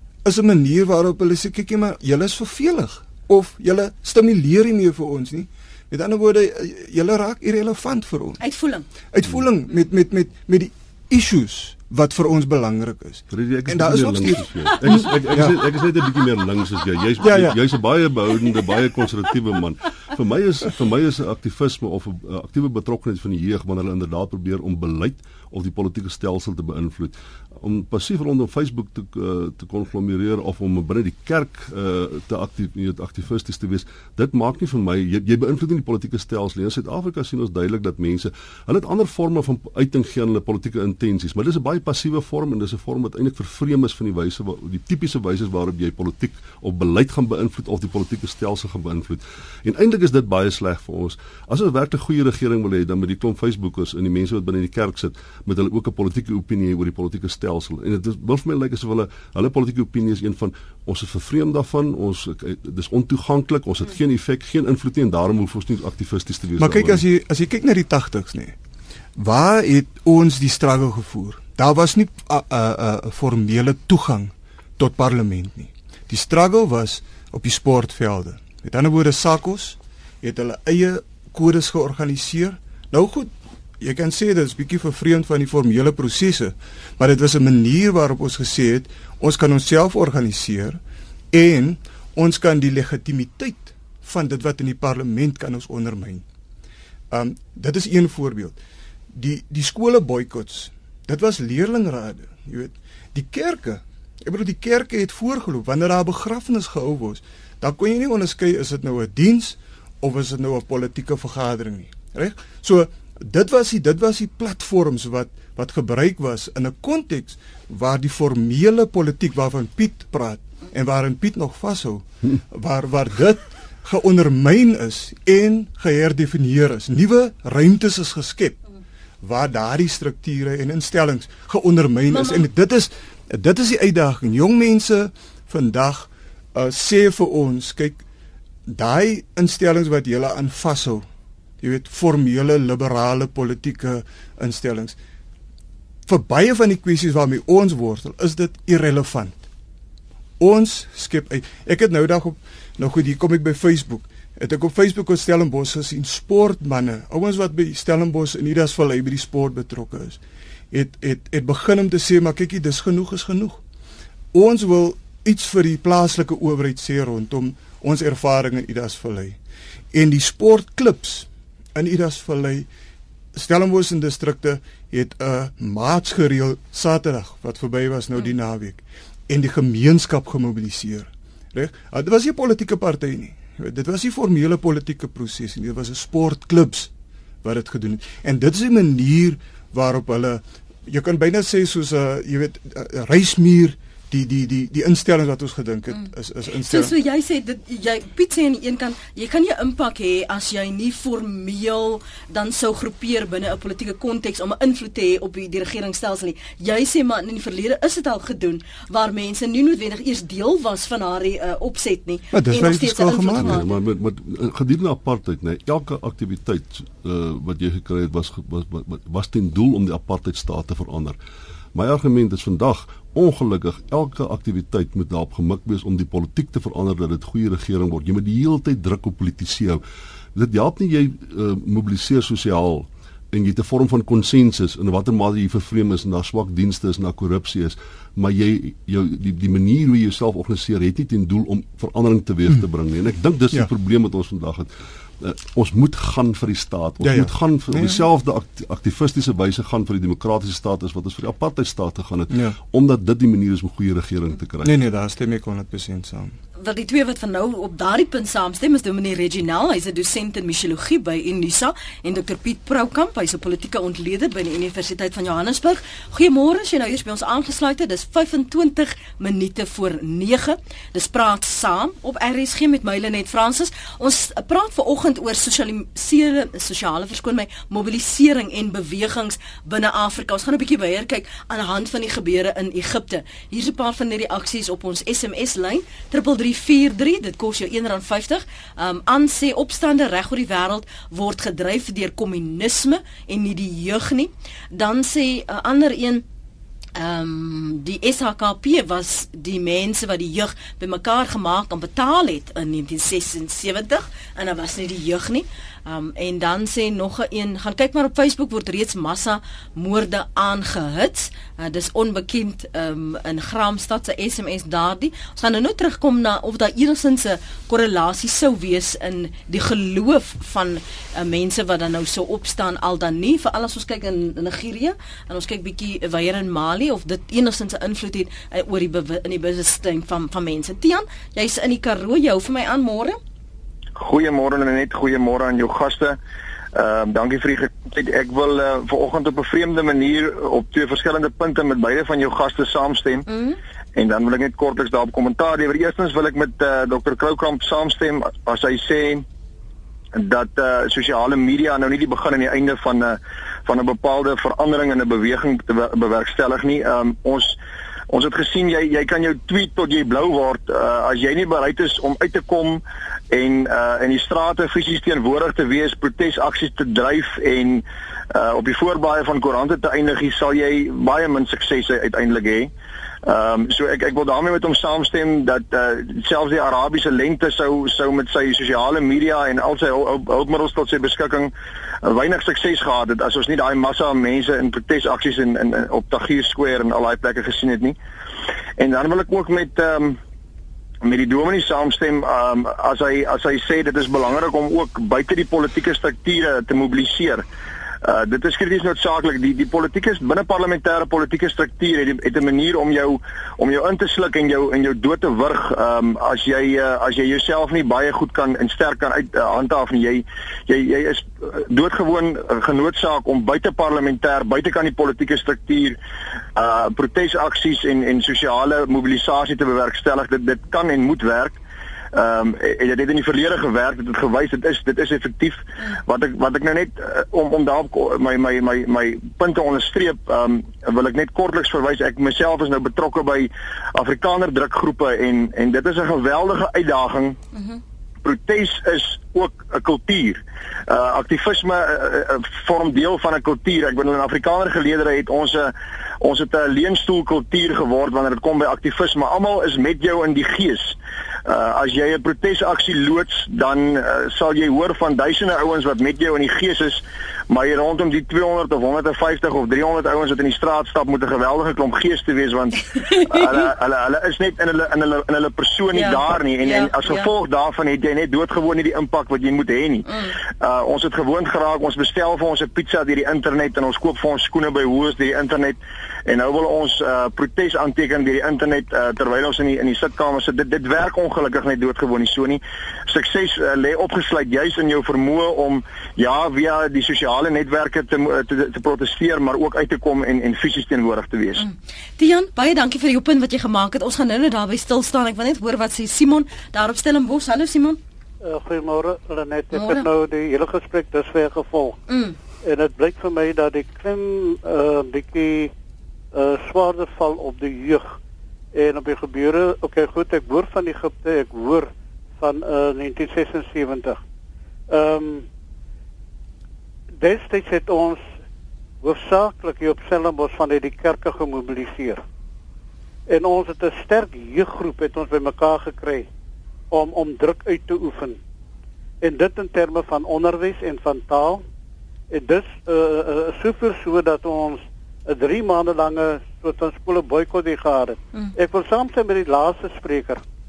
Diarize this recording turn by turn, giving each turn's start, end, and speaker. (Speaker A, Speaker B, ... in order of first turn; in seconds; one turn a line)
Speaker A: 0.2-8.4
Speaker B: 8.4-8.8
Speaker A: 9.1-15.6
Speaker C: 13.3-67.0
Speaker A: 17.2-17.6
Speaker A: 66.6-68.5
Speaker A: 69.2-90.8
Speaker A: 91.3-96.2
Speaker A: 97.1-98.6
Speaker A: 99.1-128.6
Speaker A: 129.2-138.0
Speaker B: 132.1-132.4
Speaker A: 138.7-141.1
Speaker A: 141.6-145.0
Speaker A: 146.1-149.4
Speaker A: 150.4-160.2
Speaker A: 160.7-163.6
Speaker A: 164.3-169.4
Speaker A: 169.9-172.7
Speaker A: 173.3-186.9
Speaker A: 187.4-196.9
Speaker B: 196.6-213.8
Speaker A: 212.3-213.6
Speaker C: 213.3-221.2
Speaker C: 221.7-229.8
Speaker C: 230.3-244.7
Speaker C: 245.2-254.7
Speaker A: 247.0-248.0
Speaker A: 254.6-256.4
Speaker B: 256.6-296.2
Speaker B: 296.9-333.2
Speaker D: 334.0-336.2
Speaker D: 336.7-343.3
Speaker B: 343.3-343.6
Speaker D: 343.9-349.2
Speaker D: 350.1-357.6
Speaker D: 358.1-372.7
Speaker D: 373.2-381.5
Speaker D: 382.0-388.0
Speaker D: 388.8-390.2
Speaker D: 391.0-397.4
Speaker D: 398.0-416.0
Speaker D: 416.6-421.6
Speaker D: 422.1-437.4
Speaker B: 437.5-437.8
Speaker D: 438.2-470.1
Speaker B: 462.9-463.5
Speaker B: 465.9-467.3
Speaker B: 470.1-470.3
Speaker D: 470.6-491.6
Speaker B: 491.6-498.0
Speaker E: 498.4-502.0
Speaker B: 499.7-500.1
Speaker B: 502.1-502.4
Speaker E: 502.6-505.7
Speaker E: 506.3-508.1
Speaker E: 508.7-514.2
Speaker E: 514.9-515.5
Speaker E: 517.2-518.2
Speaker E: 519.0-522.2
Speaker E: 523.3-526.3
Speaker E: 526.9-528.4
Speaker E: 529.2-531.6
Speaker E: 532.3-540.4